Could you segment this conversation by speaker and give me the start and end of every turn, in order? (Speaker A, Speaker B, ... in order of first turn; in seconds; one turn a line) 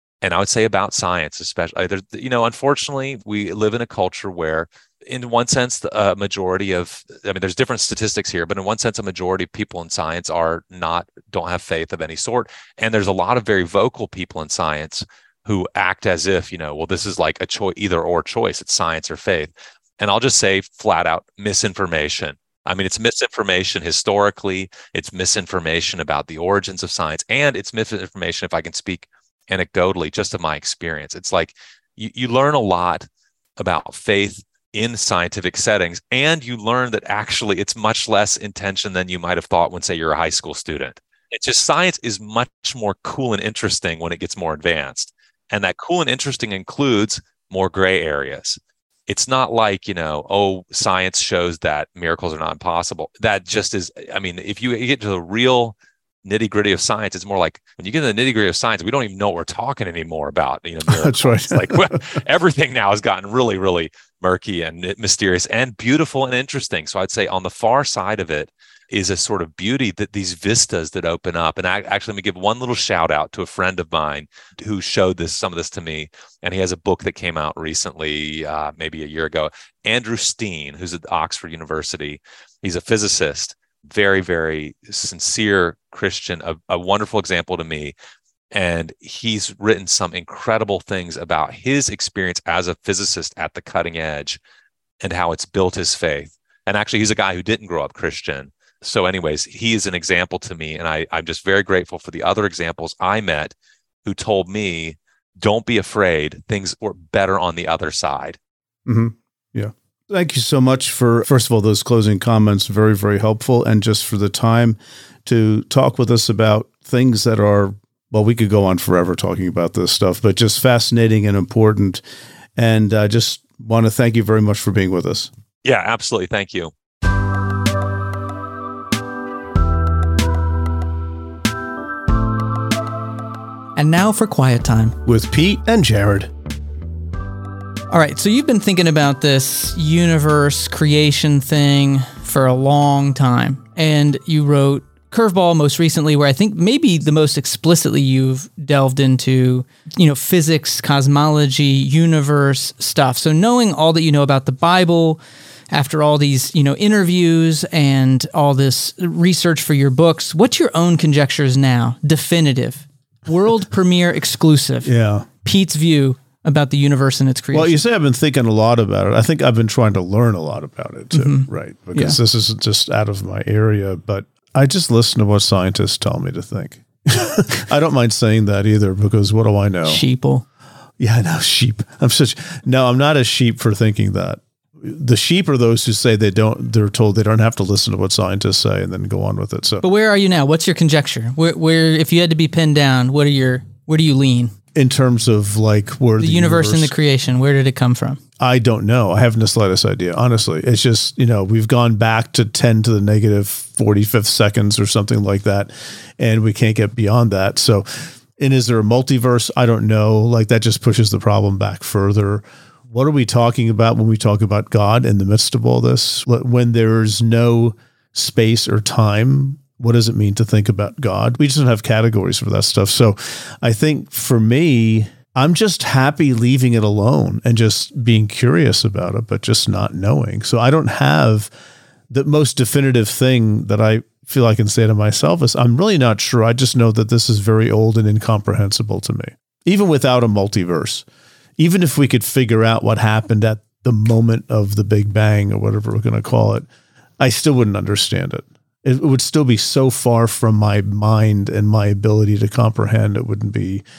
Speaker A: 0.2-87.9
Speaker B: 60.9-62.0
Speaker A: 88.5-94.4
Speaker A: 95.0-103.5
Speaker A: 104.0-108.4
Speaker B: 108.8-122.0
Speaker B: 122.5-125.3
Speaker A: 125.6-126.7
Speaker C: 133.8-134.9
Speaker B: 135.1-136.3
Speaker C: 137.9-155.2
Speaker C: 155.7-164.9
Speaker B: 164.8-165.3
Speaker C: 165.4-167.8
Speaker B: 167.5-180.0
Speaker C: 171.1-172.2
Speaker C: 179.8-180.4
Speaker B: 181.0-189.8
Speaker C: 189.8-194.5
Speaker B: 194.7-196.9
Speaker C: 196.2-198.2
Speaker B: 198.4-231.5
Speaker B: 232.1-241.0
Speaker B: 241.6-246.7
Speaker B: 247.2-253.8